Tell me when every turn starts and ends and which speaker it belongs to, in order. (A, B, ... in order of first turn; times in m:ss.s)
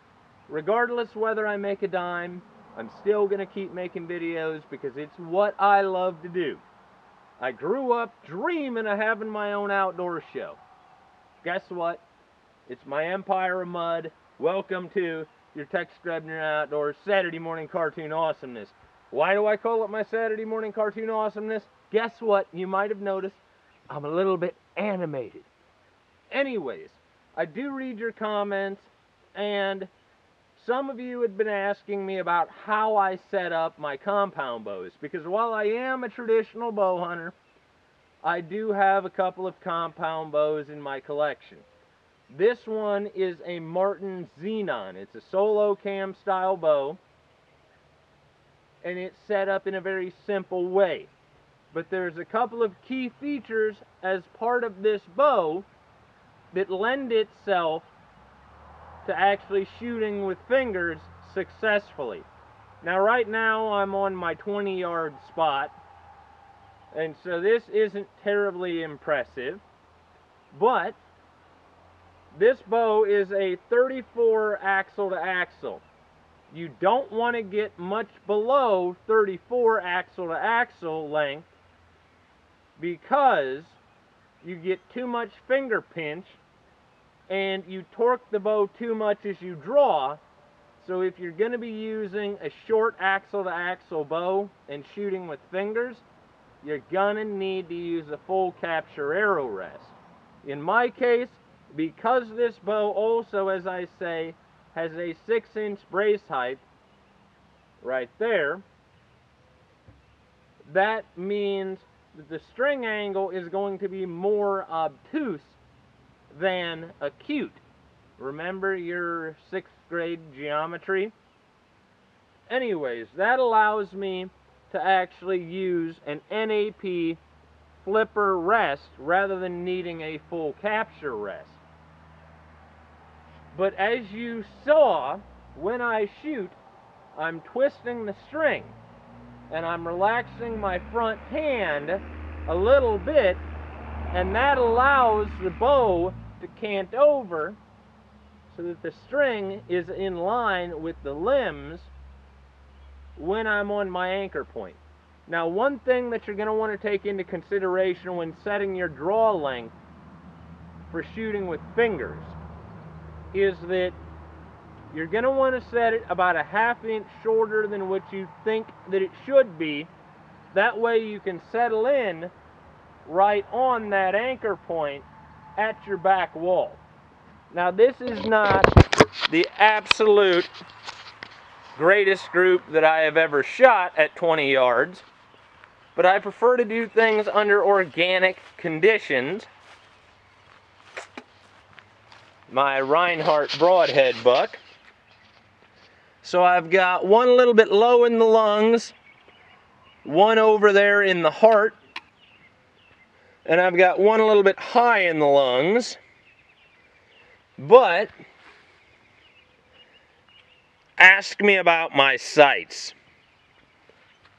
0:00.5-0:06.6 A
0:07.4-0:10.6 A
0:11.4-0:12.0 A
0:12.7-0:25.5 A
0:26.3-0:29.9 A
0:30.5-0:37.4 A
0:38.2-0:41.6 A
0:42.3-0:47.0 A
0:48.8-0:51.1 A
0:51.7-0:55.7 A
0:56.5-0:57.9 A
0:59.0-1:02.3 A
1:02.8-1:05.7 A
1:06.9-1:09.6 A
1:10.5-1:11.0 A
1:12.3-1:15.8 A
1:16.5-1:21.5 A
1:22.8-1:23.8 A
1:24.4-1:26.4 A
1:27.3-1:30.2 A
1:30.8-1:36.0 A
1:36.6-1:46.6 A
1:47.8-1:48.6 A
1:50.6-1:55.6 A
1:56.3-1:57.6 A
1:58.2-2:01.1 A
2:02.5-2:07.2 A
2:07.8-2:11.6 A
2:13.5-2:16.6 A
2:17.1-2:18.8 A
2:19.5-2:23.4 A
2:24.1-2:27.6 A
2:28.5-2:31.9 A
2:33.2-2:39.7 A
2:40.9-2:42.4 A
2:43.3-2:44.0 A
2:44.9-2:49.9 A
2:50.5-2:52.3 A
2:53.0-2:56.8 A
2:57.5-2:58.7 A
2:59.3-3:00.5 A
3:01.7-3:05.0 A
3:05.9-3:09.5 A
3:12.5-3:14.6 A
3:16.2-3:18.9 A
3:20.0-3:21.8 A
3:23.4-3:26.0 A
3:27.6-3:28.1 A
3:31.0-3:33.0 A